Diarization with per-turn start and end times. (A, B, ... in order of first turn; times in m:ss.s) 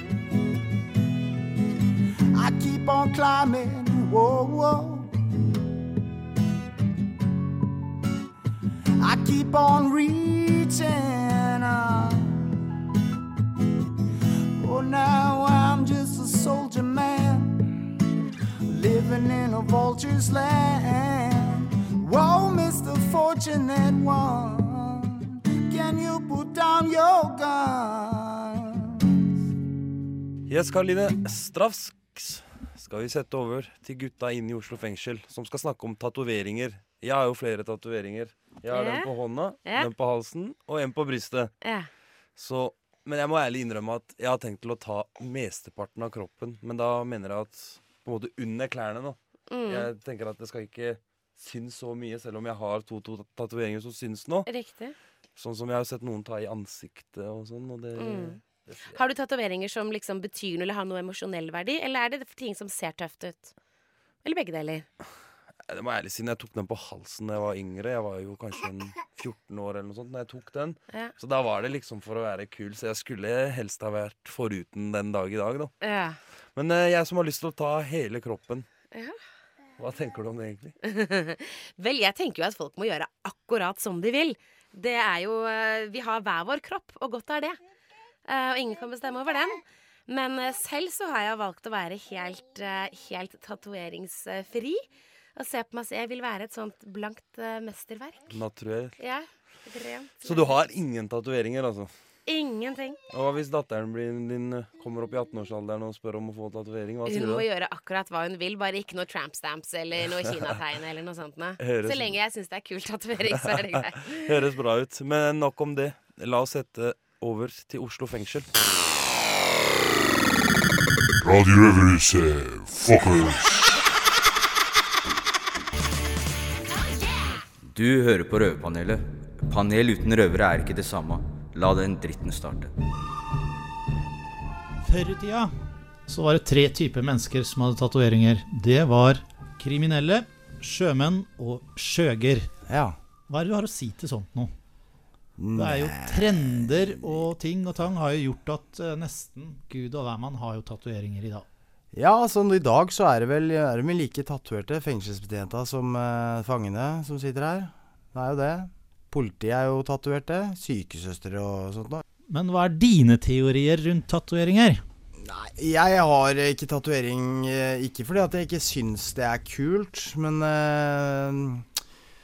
0:02.4-0:05.1 A
0:02.4-0:05.0 B
0:09.0-0:12.2 A
0:09.0-0:12.1 B
0:14.6-0:17.4 A
0:14.6-0:17.6 B
0:18.7-0:25.0 A
0:18.7-0:25.0 B
0:25.7-0:28.4 B
0:25.7-0:28.4 A
0:30.5-0:41.5 C
0:38.7-0:39.1 D
0:39.6-0:39.9 D
0:41.6-0:41.9 D
0:42.4-0:54.5 C
0:49.5-0:49.9 D
0:54.5-0:55.0 D
0:55.4-0:59.0 C
0:58.0-0:58.4 D
0:58.9-1:03.5 D
1:04.2-1:04.9 D
1:05.7-1:15.7 C
1:15.8-1:16.2 D
1:16.6-1:18.7 C
1:18.9-1:19.2 D
1:19.8-1:20.8 C
1:20.8-1:27.6 D
1:28.3-1:34.8 D
1:35.4-1:38.4 D
1:38.3-1:39.0 C
1:39.0-1:40.5 D
1:40.2-1:41.9 C
1:42.3-1:43.0 D
1:43.1-1:47.5 C
1:47.1-1:54.3 D
1:51.6-1:52.2 C
1:53.5-1:58.5 C
2:01.2-2:03.6 E
2:07.7-2:12.7 F
2:14.8-2:15.5 G
2:16.1-2:22.5 G
2:22.7-2:23.0 A
2:23.3-2:24.5 G
2:25.4-2:27.3 A
2:25.6-2:31.5 G
2:31.9-2:42.0 A
2:42.3-2:44.8 G
2:45.2-2:51.6 A